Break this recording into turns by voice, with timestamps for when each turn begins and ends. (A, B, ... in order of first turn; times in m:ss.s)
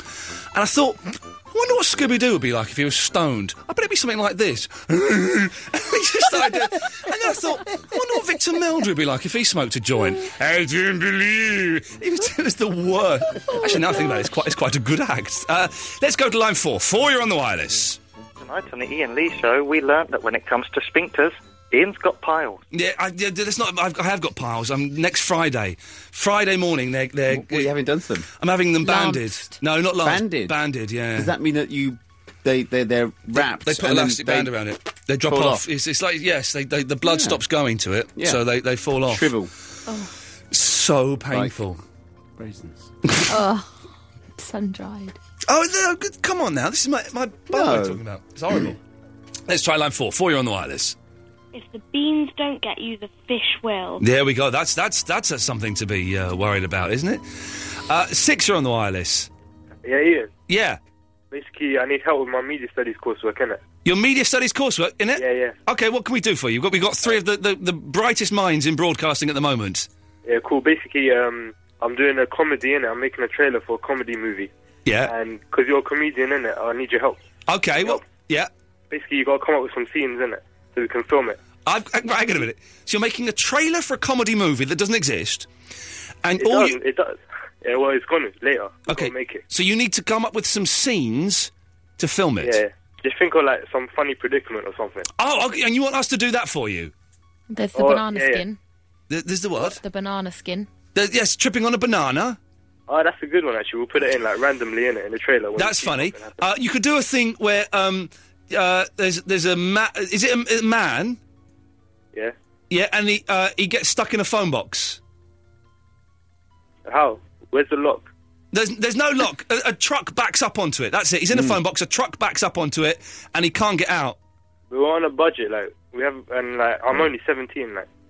0:00.5-0:18.0 A
0:18.4-0:22.6 B
0:22.7-0:27.7 A
0:27.3-0:28.2 C
0:28.4-0:31.3 A
0:28.8-0:29.5 D
0:30.0-0:30.5 C
0:31.2-0:34.5 C
0:33.3-0:39.3 A
0:35.2-0:35.6 C
0:37.0-0:37.4 C
0:38.2-0:38.4 C
0:39.1-0:39.5 C
0:39.9-0:40.1 D
0:40.5-0:41.8 A
0:41.3-0:41.6 C
0:42.4-0:42.9 C
0:43.3-0:43.8 D
0:44.4-0:45.2 D
0:45.5-0:48.8 A
0:47.5-0:48.8 C
0:49.5-0:51.0 A
0:51.5-0:54.0 E
0:54.0-0:59.3 A
0:59.8-1:00.3 F
1:00.5-1:00.8 A
1:01.3-1:03.6 F
1:03.8-1:09.9 A
1:05.2-1:05.5 F
1:10.2-1:14.5 F
1:14.8-1:15.1 A
1:15.0-1:17.2 F
1:17.5-1:18.5 A
1:18.9-1:21.4 F
1:21.6-1:25.5 A
1:26.2-1:26.8 A
1:26.4-1:29.4 F
1:28.9-1:32.6 A
1:32.4-1:35.1 F
1:35.2-1:36.9 A
1:37.5-1:38.6 D
1:37.7-1:38.4 F
1:39.1-1:39.8 A
1:39.6-1:40.7 D
1:40.9-1:42.4 A
1:42.9-1:46.4 F
1:45.6-1:51.2 A
1:52.7-1:55.0 A
1:56.9-1:58.1 F
1:58.5-2:04.2 A
2:01.3-2:01.6 C
2:04.7-2:07.9 F